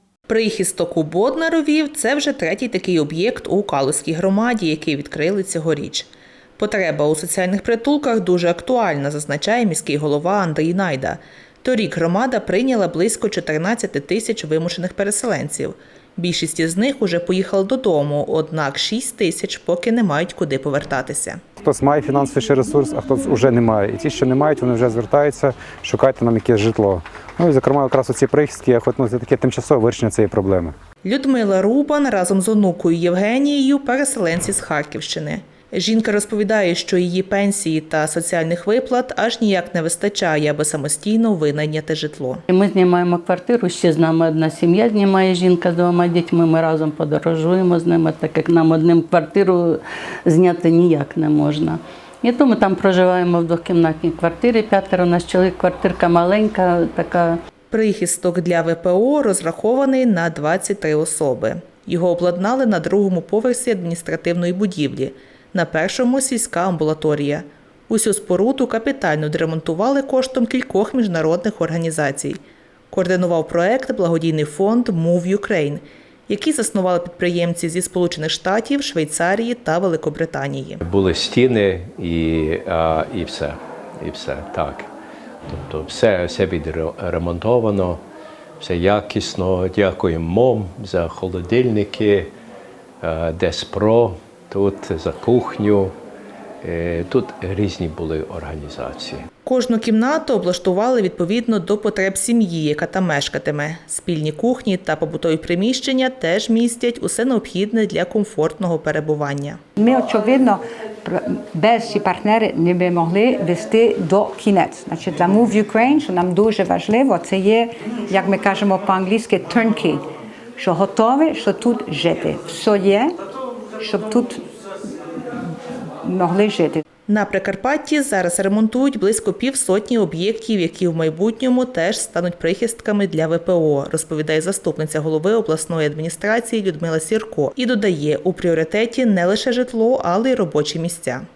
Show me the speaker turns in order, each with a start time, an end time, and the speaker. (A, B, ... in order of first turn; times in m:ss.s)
0:00.3-0:21.4 A
0:21.6-0:30.7 B
0:31.0-0:42.4 A
0:42.5-0:57.4 C
0:57.7-1:12.4 A
1:12.9-1:20.8 A
1:20.8-1:24.9 D
1:25.5-1:28.0 D
1:28.6-1:32.3 D
1:33.0-1:35.9 D
1:36.6-1:39.2 D
1:39.4-1:49.6 A
1:49.8-2:00.0 E
2:00.6-2:03.1 E
2:03.8-2:04.4 E
2:06.0-2:06.8 E
2:07.1-2:21.2 A